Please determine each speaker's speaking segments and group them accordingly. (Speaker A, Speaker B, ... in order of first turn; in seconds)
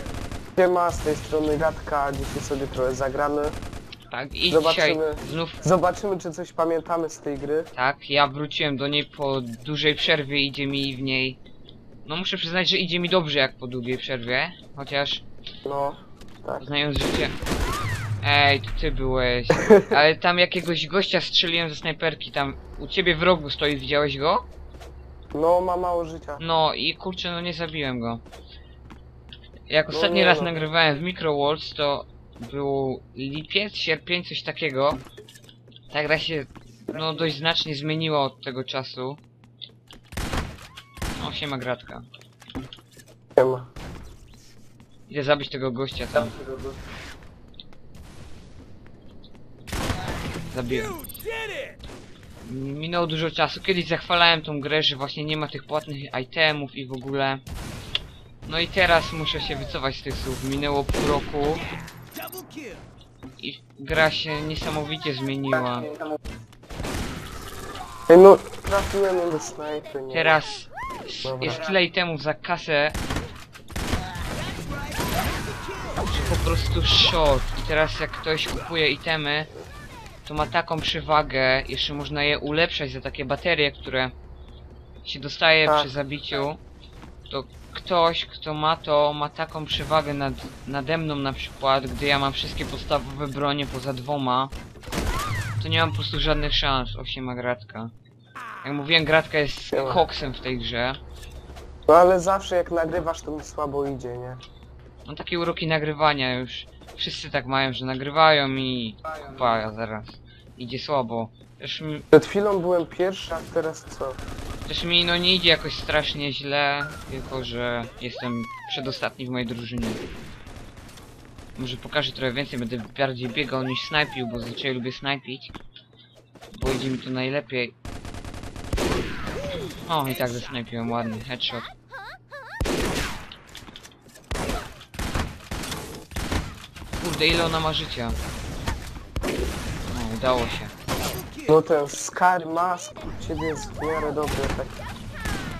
Speaker A: 0.6-3.6, 4.5-7.7, 15.7-16.7, 19.6-20.0, 25.3-26.4, 29.9-30.6, 43.4-43.7, 68.1-70.4, 71.2-71.6, 85.6-85.9, 99.7-100.0, 101.9-104.4, 112.1-114.2, 141.5-144.8
Speaker B: 4.1-5.6, 7.7-11.4, 12.0-15.2, 16.6-17.4, 18.2-24.4, 26.4-28.2, 29.7-35.0, 35.9-39.2, 41.2-42.0, 45.1-46.4, 50.5-51.0, 52.4-57.4, 58.5-61.7, 63.4-65.9, 70.1-73.0, 76.0-79.5, 80.2-84.1, 85.0-86.6, 87.3-94.5, 95.6-97.9, 98.6-101.0, 105.0-112.1, 114.7-120.0, 121.5-125.5, 126.5-127.7, 129.9-131.7, 137.0-138.2, 139.9-140.7